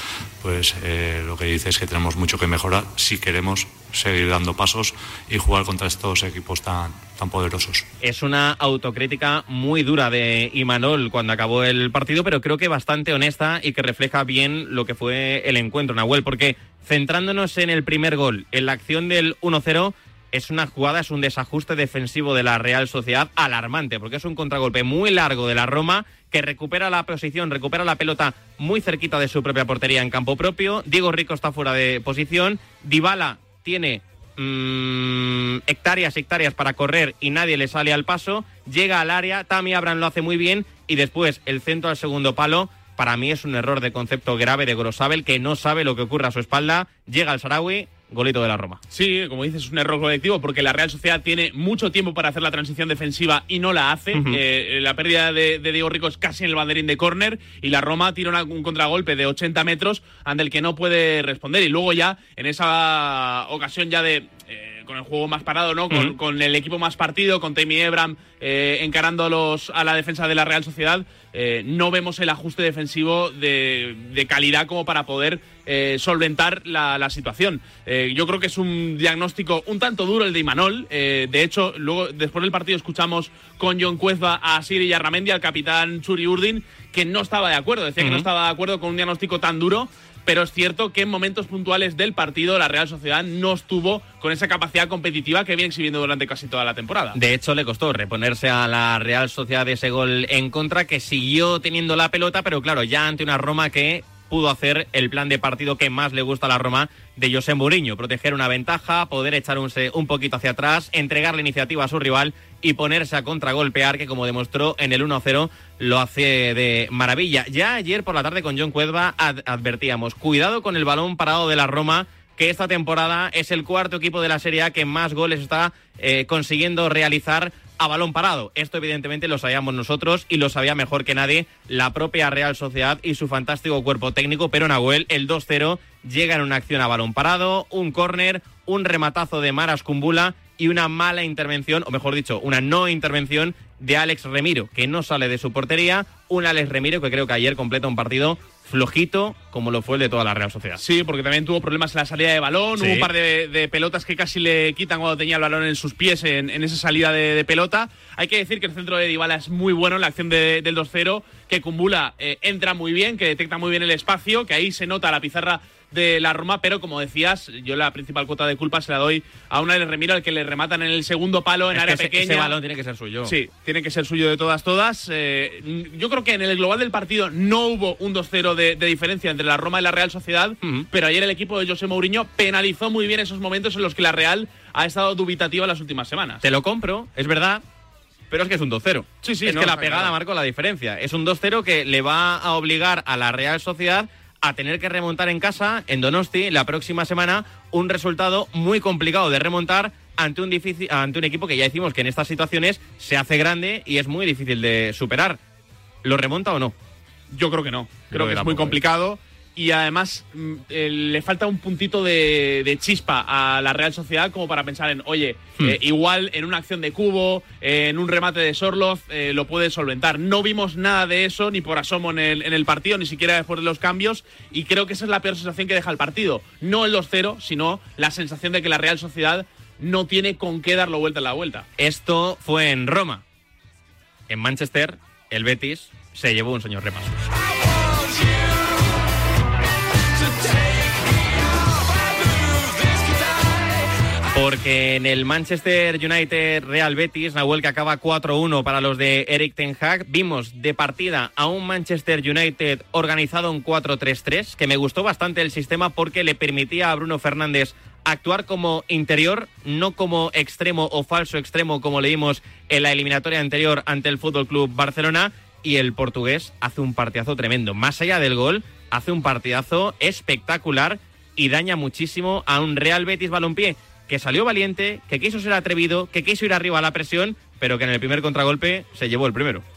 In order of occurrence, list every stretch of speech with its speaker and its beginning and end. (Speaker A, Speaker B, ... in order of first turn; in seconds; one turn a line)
Speaker A: 0.4-7.8
Speaker B: 8.0-48.8
Speaker C: 48.9-97.2
Speaker B: 54.1-54.4
Speaker B: 97.1-150.8
Speaker C: 150.8-172.5
Speaker B: 152.8-153.1
Speaker B: 171.7-173.4
Speaker C: 173.2-186.4
Speaker B: 186.4-187.6
Speaker B: 188.3-205.4
Speaker C: 189.2-190.1
Speaker B: 206.0-206.7
Speaker C: 207.3-231.7
Speaker B: 208.1-208.8
Speaker B: 231.8-233.2
Speaker B: 234.3-237.1
Speaker B: 244.3-279.6